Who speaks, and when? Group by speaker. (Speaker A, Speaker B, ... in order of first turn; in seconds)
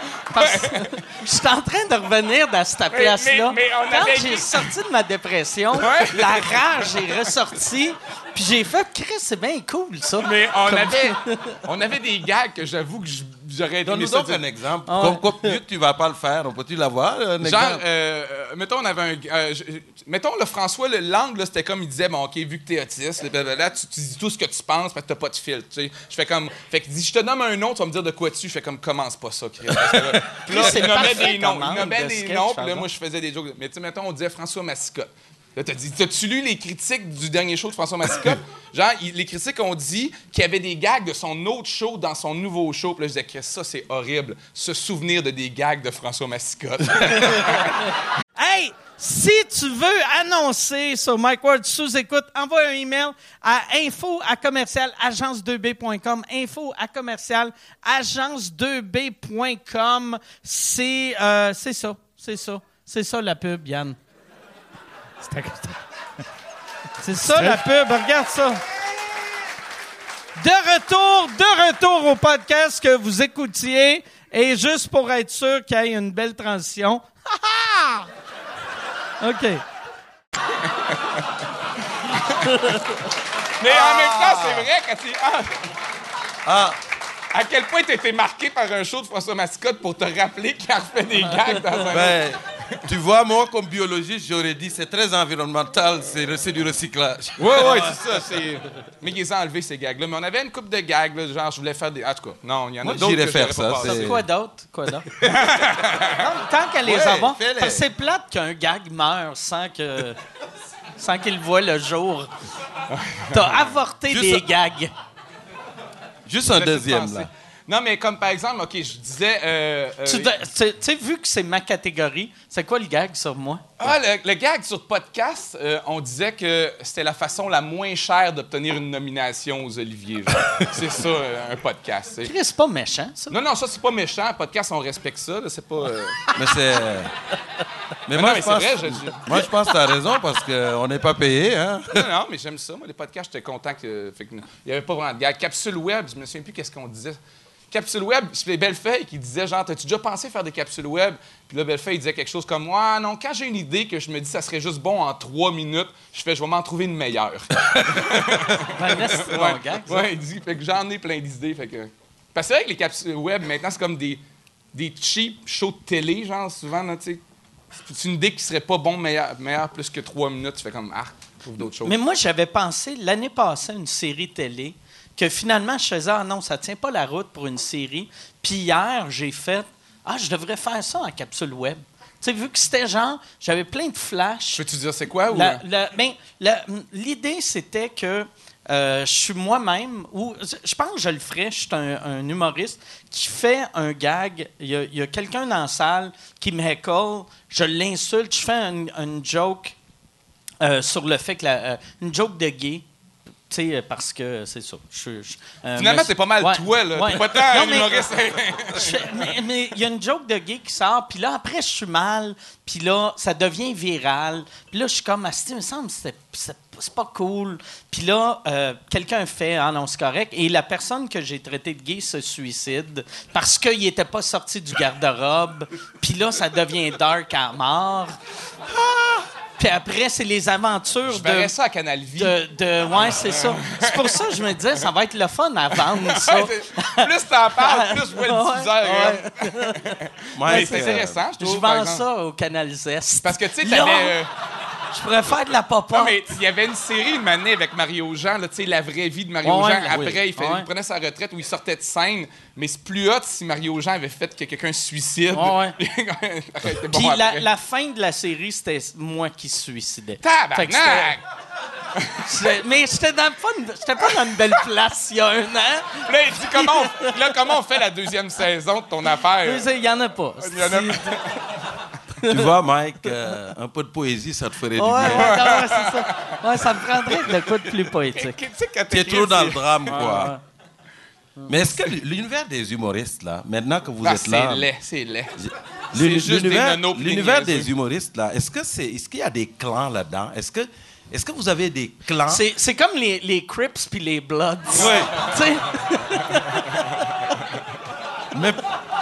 Speaker A: 0.3-1.0, 2.9-4.7, 5.7-7.3, 10.2-14.4, 17.4-47.8, 82.2-82.8, 83.6-85.7, 87.3-92.8, 97.4-104.2, 105.2-106.2, 113.0-113.3, 116.5-120.3, 123.8-132.3, 133.3-136.2, 138.1-139.3, 141.9-147.2, 147.7-164.2, 164.7-167.2, 167.9-171.9, 184.6-185.6, 205.8-209.3, 231.1-232.4, 233.2-234.2, 235.9-242.0, 243.2-244.3, 245.9-257.5, 260.2-261.2, 262.0-262.3, 266.1-269.7, 270.4-271.6, 275.1-276.3, 278.1-280.3, 284.0-285.3, 285.9-287.7, 294.8-295.1
Speaker B: 0.3-11.6, 14.9-15.6, 30.5-32.9, 48.4-64.0, 65.3-65.7, 67.0-68.6, 70.4-78.0, 79.2-79.6, 103.8-105.1, 106.2-110.2, 111.0-112.3, 113.3-114.9, 120.0-123.7, 132.3-133.4, 158.7-160.1, 171.8-184.6, 185.3-199.7, 200.6-202.9, 203.5-208.1, 208.7-228.2, 228.8-231.5, 232.2-239.8, 240.5-240.9, 241.4-244.2, 244.9-246.2, 249.4-250.7, 255.3-255.8, 256.9-261.2, 262.2-267.3, 269.4-271.2, 274.8-278.4, 279.9-280.4, 292.3-296.9
Speaker C: 13.8-17.8, 29.7-30.8, 67.3-67.6, 83.7-84.7, 86.5-86.8, 91.9-97.9, 102.8-104.2, 106.8-107.9, 114.1-114.5, 116.3-117.3, 136.3-137.1, 138.1-142.1, 157.7-158.4, 240.3-241.2, 249.9-250.2, 272.3-275.4, 278.9-280.3, 281.5-284.7, 285.4-292.4, 294.7-295.1, 298.3-298.6